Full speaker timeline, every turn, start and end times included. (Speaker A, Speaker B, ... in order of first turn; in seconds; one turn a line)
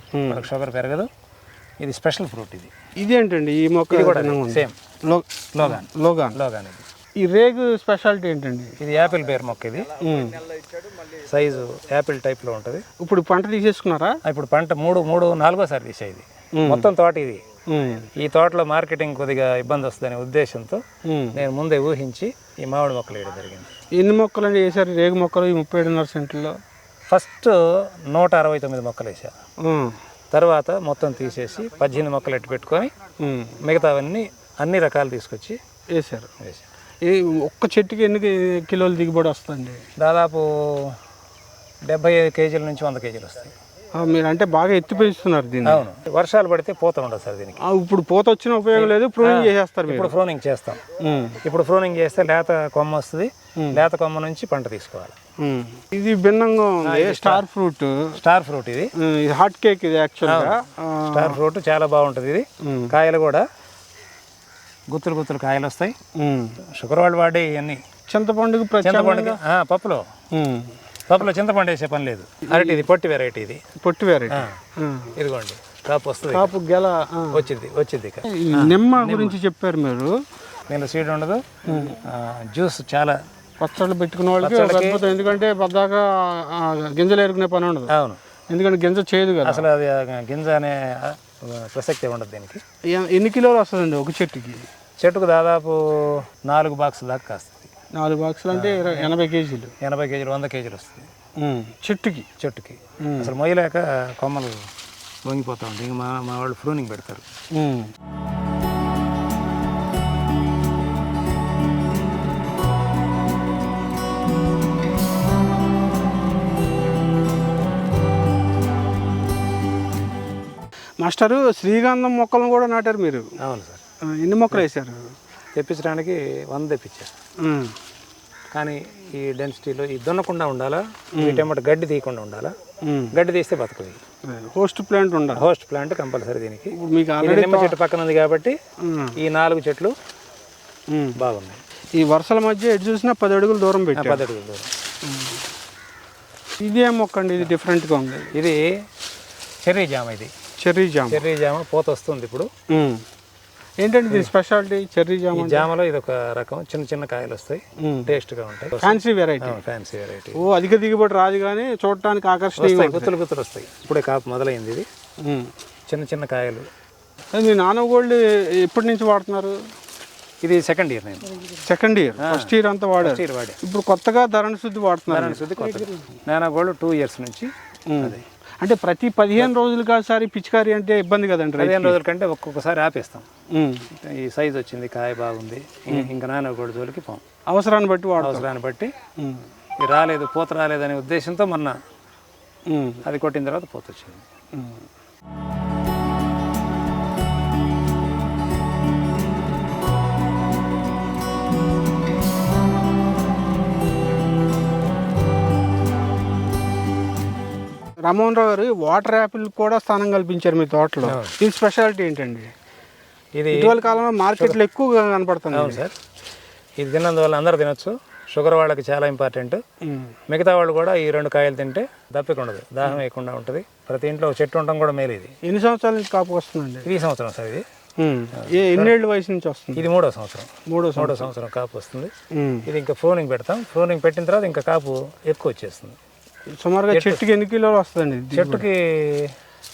Speaker A: 0.1-0.5
Speaker B: 0.3-1.1
Speaker B: 1.8-2.7
Speaker A: 3.0-6.4
Speaker B: 3.9-4.8
Speaker B: 5.5-6.8
Speaker A: 7.2-8.8
Speaker B: 8.8-9.9
Speaker A: 10.0-10.4
Speaker B: 11.1-12.8
Speaker A: 13.0-14.2
Speaker B: 14.2-17.4
Speaker A: 16.6-16.9
Speaker A: 17.7-18.1
Speaker B: 18.1-20.8
Speaker A: 21.1-21.4
Speaker B: 21.3-23.7
Speaker A: 23.9-26.6
Speaker B: 27.1-29.3
Speaker A: 29.6-30.0
Speaker B: 30.3-32.9
Speaker A: 33.2-33.6
Speaker B: 33.6-35.6
Speaker A: 35.9-36.3
Speaker B: 36.4-36.7
Speaker A: 37.0-39.9
Speaker B: 40.0-41.0
Speaker B: 41.9-43.5
Speaker A: 44.0-45.8
Speaker B: 45.6-47.6
Speaker A: 47.6-50.1
Speaker B: 48.7-50.8
Speaker A: 51.0-51.4
Speaker B: 51.4-55.2
Speaker A: 55.4-58.2
Speaker B: 56.8-57.5
Speaker B: 58.2-58.9
Speaker A: 59.0-61.4
Speaker B: 60.2-63.5
Speaker A: 62.6-62.9
Speaker B: 64.9-66.0
Speaker A: 66.2-66.6
Speaker B: 66.7-67.8
Speaker A: 68.1-69.4
Speaker B: 68.8-70.1
Speaker A: 70.3-70.7
Speaker B: 71.1-73.6
Speaker A: 72.5-72.8
Speaker A: 73.8-75.1
Speaker B: 74.3-74.5
Speaker B: 75.2-76.5
Speaker A: 76.3-77.4
Speaker B: 77.3-79.4
Speaker A: 78.2-80.1
Speaker B: 80.7-83.2
Speaker A: 81.7-82.0
Speaker A: 83.6-87.9
Speaker B: 84.4-85.0
Speaker B: 87.9-88.2
Speaker A: 88.5-89.6
Speaker B: 89.4-92.6
Speaker A: 92.9-94.7
Speaker B: 95.0-97.7
Speaker A: 97.9-99.7
Speaker B: 98.5-99.1
Speaker B: 99.8-101.1
Speaker A: 101.4-102.3
Speaker B: 102.4-104.7
Speaker A: 103.0-103.3
Speaker B: 105.2-107.2
Speaker A: 107.5-107.9
Speaker A: 121.0-123.2
Speaker B: 123.4-123.8
Speaker A: 124.0-125.1
Speaker B: 125.5-127.1
Speaker A: 127.4-127.8
Speaker B: 128.5-132.5
Speaker A: 131.2-131.5
Speaker A: 132.8-133.2
Speaker B: 133.1-134.0
Speaker A: 134.2-135.4
Speaker B: 135.3-138.6
Speaker A: 136.7-137.8
Speaker A: 138.8-139.2
Speaker B: 139.2-139.9
Speaker A: 140.9-141.2
Speaker B: 141.2-141.6
Speaker A: 141.9-144.2
Speaker B: 143.9-144.7
Speaker A: 145.1-145.4
Speaker A: 146.6-148.3
Speaker B: 148.3-148.8
Speaker B: 149.6-150.3
Speaker A: 150.6-151.2
Speaker B: 151.1-152.5
Speaker A: 152.7-153.0
Speaker A: 153.8-155.7
Speaker B: 155.3-160.4
Speaker A: 157.8-158.1
Speaker A: 158.8-159.6
Speaker A: 160.3-163.1
Speaker B: 162.6-164.9
Speaker A: 165.2-165.5
Speaker B: 165.9-166.7
Speaker A: 167.3-169.6
Speaker B: 170.4-171.3
Speaker A: 171.6-175.8
Speaker B: 172.2-173.6
Speaker B: 175.1-178.2
Speaker A: 177.9-182.0
Speaker B: 181.6-183.3
Speaker A: 183.5-183.9
Speaker B: 183.9-187.2
Speaker A: 187.5-188.5
Speaker B: 188.2-188.9
Speaker A: 189.2-189.5
Speaker B: 189.8-191.8
Speaker A: 192.7-193.0
Speaker B: 193.1-194.3
Speaker A: 194.5-194.9
Speaker A: 208.0-212.5
Speaker B: 211.0-211.3
Speaker B: 213.4-213.8
Speaker A: 213.5-215.8
Speaker B: 215.5-216.0
Speaker B: 216.8-219.6
Speaker A: 219.8-220.2
Speaker B: 220.3-225.3
Speaker A: 225.4-226.9
Speaker B: 226.8-227.7
Speaker A: 228.0-229.8
Speaker B: 228.4-228.9
Speaker B: 229.8-232.1
Speaker A: 230.7-231.3
Speaker A: 232.3-232.7
Speaker B: 232.7-236.0
Speaker A: 236.5-238.7
Speaker B: 236.9-237.2
Speaker B: 238.3-239.4